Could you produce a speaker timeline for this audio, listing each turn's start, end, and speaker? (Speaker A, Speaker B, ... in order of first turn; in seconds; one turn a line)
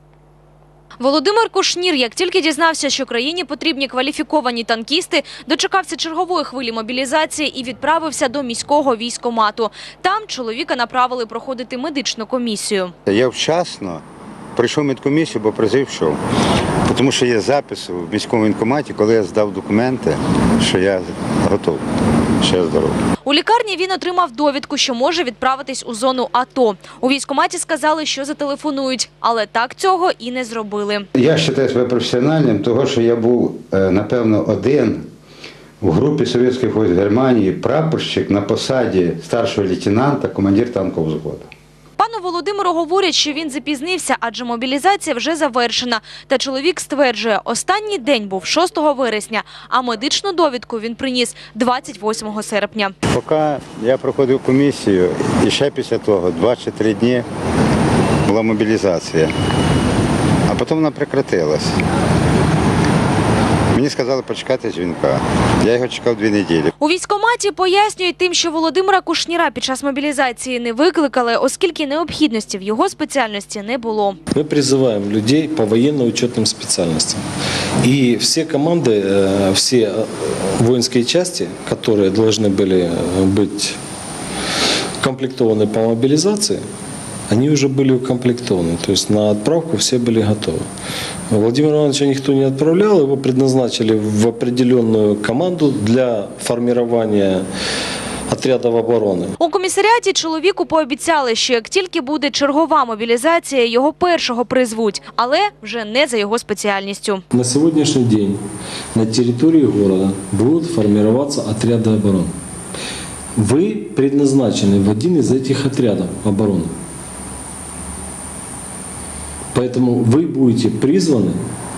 Speaker A: 1.0-12.9
Speaker B: 13.1-14.0
Speaker B: 14.5-16.2
Speaker B: 16.9-21.8
Speaker B: 22.4-23.0
Speaker A: 23.2-31.1
Speaker B: 31.1-35.0
Speaker B: 35.8-41.5
Speaker A: 42.0-52.9
Speaker B: 53.1-57.2
Speaker B: 58.2-59.3
Speaker B: 60.5-61.8
Speaker B: 63.7-66.7
Speaker A: 66.8-74.2
Speaker C: 74.3-77.2
Speaker C: 77.8-83.8
Speaker C: 85.0-86.6
Speaker C: 87.3-90.6
Speaker C: 91.3-97.4
Speaker C: 98.3-99.3
Speaker A: 99.4-107.2
Speaker C: 107.3-108.4
Speaker C: 108.9-112.3
Speaker C: 113.3-116.7
Speaker C: 119.5-121.4